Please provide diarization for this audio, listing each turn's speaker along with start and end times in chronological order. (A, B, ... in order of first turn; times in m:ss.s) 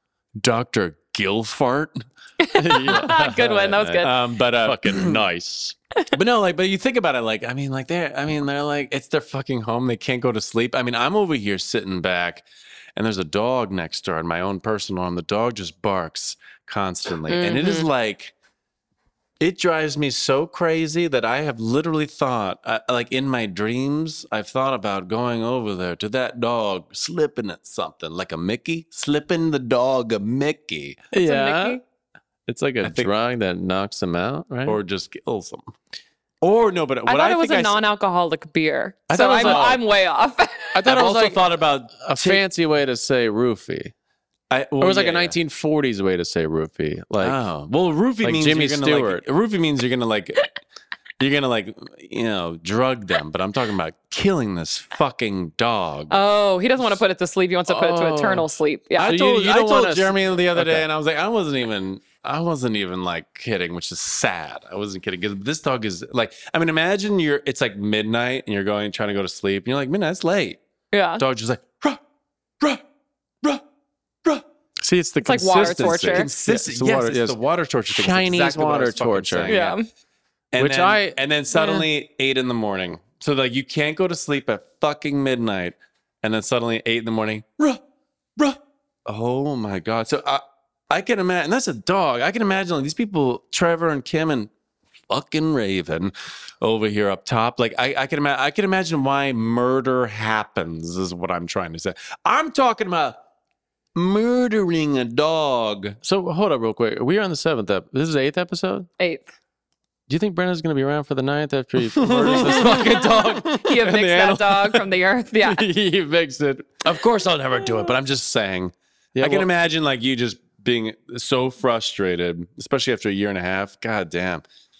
0:00.4-0:02.0 A
0:02.4-0:04.2 B
0:02.6-0:12.4 A
0:02.7-0:05.2 C
0:13.0-0:18.3 A
0:17.3-0:17.9 B
0:19.4-0:31.1 A
0:31.1-0:31.8 C
0:31.2-0:31.8 B
0:32.5-0:34.8 C
0:32.8-0:33.1 A
0:34.6-0:35.7 A
0:36.4-0:37.8 A
0:37.1-0:40.8 B
0:39.1-0:39.8 C
0:39.1-0:39.8 A
0:40.7-0:43.9 C
0:40.8-0:42.4 A
0:44.5-0:45.4 A
0:44.8-0:47.4 C
0:47.2-0:50.6 A
0:48.2-0:49.2 C
0:51.2-0:56.2 A
0:56.1-0:59.2 B
0:57.7-1:00.8 C
0:59.0-1:10.6 A
1:10.9-1:11.2 B
1:11.2-1:12.0 A
1:14.8-1:17.4 C
1:15.2-1:16.3 B
1:15.6-1:19.7 A
1:17.9-1:19.7 C
1:19.5-1:19.8 B
1:20.5-1:27.8 A
1:20.6-1:21.9 C
1:28.4-1:34.5 A
1:35.1-1:43.2 A
1:43.9-1:46.0 A
1:46.0-1:48.9 C
1:49.0-1:49.3 B
1:50.1-1:54.8 C
1:51.9-1:53.7 A
1:53.5-1:55.6 B
1:55.4-1:56.8 C
1:56.8-2:04.4 A
1:59.1-1:59.5 C